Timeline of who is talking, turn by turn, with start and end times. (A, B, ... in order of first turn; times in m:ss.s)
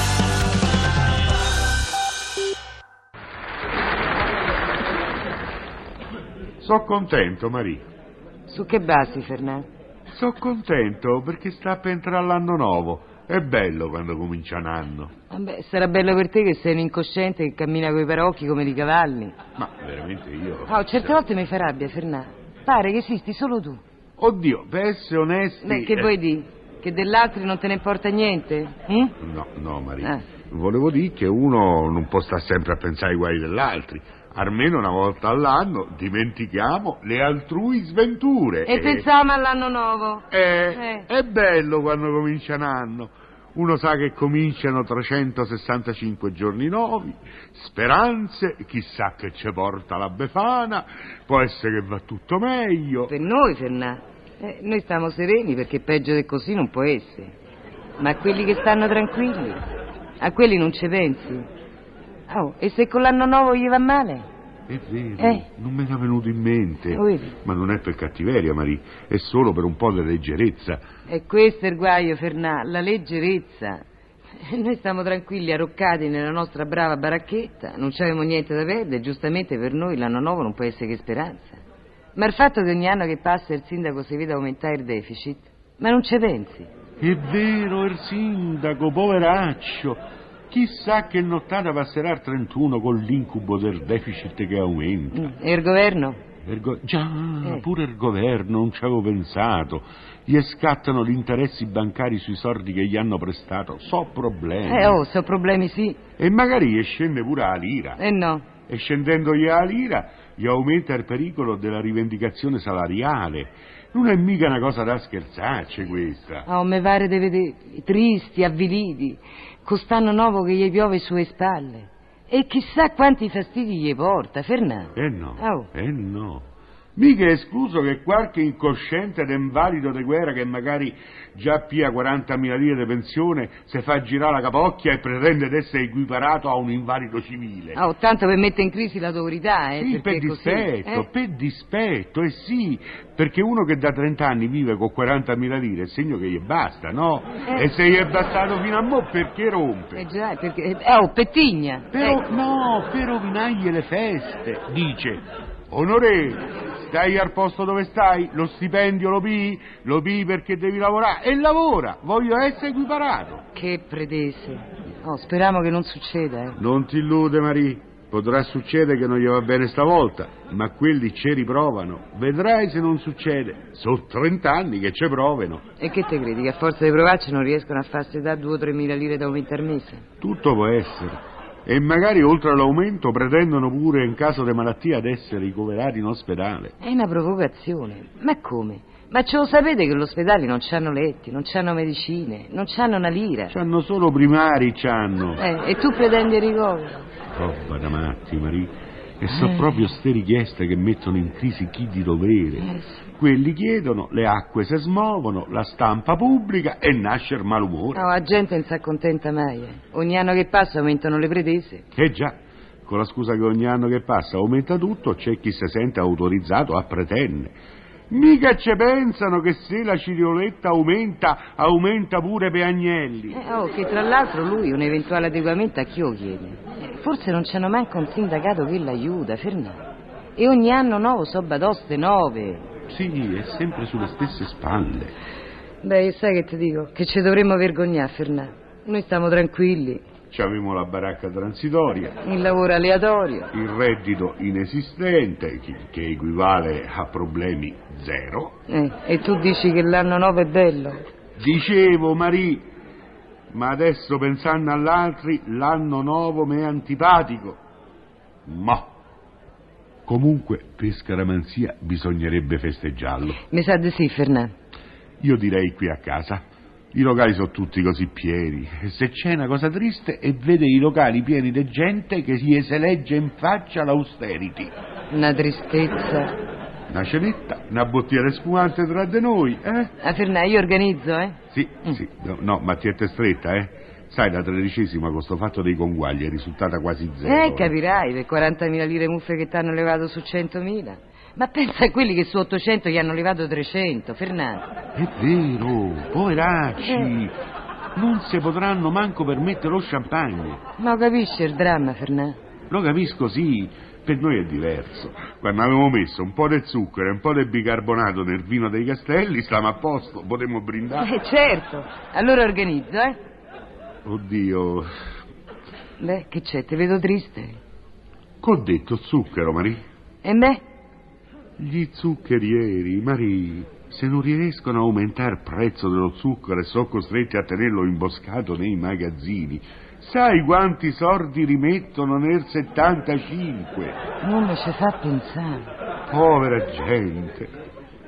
0:06.6-0:07.8 A
0:08.5-0:09.7 B
0:10.1-0:15.1 A
0:15.3-0:19.4 B
0:19.6-0:21.2 A
0:20.7-0:23.8 B
0:24.2-0:26.1 A
0:25.6-0:29.2 B
0:29.2-0:39.1 A
0:38.7-0:41.1 B
0:40.3-0:53.1 A
0:53.1-0:57.3 B
0:58.0-0:59.6 B
1:00.2-1:01.5 B
1:02.3-1:04.3 B
1:04.7-1:10.8 A
1:05.2-1:05.4 B
1:06.9-1:07.3 B
1:11.1-1:13.8 B
1:14.4-1:21.6 B
1:22.2-1:26.7 B
1:27.0-1:35.4 A
1:35.1-1:36.2 B
1:36.4-1:45.0 A
1:44.6-1:46.0 B
1:46.2-1:48.0 A
1:48.0-1:48.5 B
1:48.7-1:56.5 A
1:56.5-2:05.7 B
2:05.0-2:17.8 A
2:17.8-2:21.1 B
2:19.8-2:30.0 A
2:30.0-2:32.2 B
2:31.9-2:43.4 A
2:43.5-2:46.6 B
2:46.6-2:55.6 A
2:55.8-3:00.0 B
3:00.2-3:06.8 A
3:06.8-3:13.6 B
3:13.5-3:15.4 A
3:15.4-3:17.1 B
3:17.3-3:28.1 A
3:19.3-3:19.7 B
3:22.6-3:23.0 B
3:27.9-3:31.8 B
3:32.0-3:37.6 A
3:38.1-3:43.4 A
3:43.3-3:49.8 B
3:50.4-3:52.7 B
3:52.9-3:55.1 A
3:55.8-4:00.1 B
4:00.3-4:02.2 A
4:02.2-4:03.5 B
4:03.5-4:08.5 A
4:08.7-4:11.1 B
4:11.4-4:12.7 A
4:13.5-4:17.6 A
4:18.5-4:18.9 A
4:20.1-4:23.4 A
4:23.5-4:24.5 B
4:25.2-4:34.7 A
4:35.1-4:36.4 B
4:36.9-4:39.9 A
4:40.0-4:42.0 B
4:41.5-4:47.7 A
4:47.2-4:54.7 B
4:55.0-4:57.4 A
4:56.8-4:57.1 B
4:58.0-5:00.6 A
5:00.8-5:02.4 B
5:02.7-5:11.1 A
5:11.0-5:13.2 B
5:14.0-5:14.9 A
5:16.0-5:17.6 B
5:18.4-5:19.8 A
5:20.2-5:20.6 B
5:21.6-5:34.0 A
5:34.2-5:35.7 B
5:36.1-5:37.5 A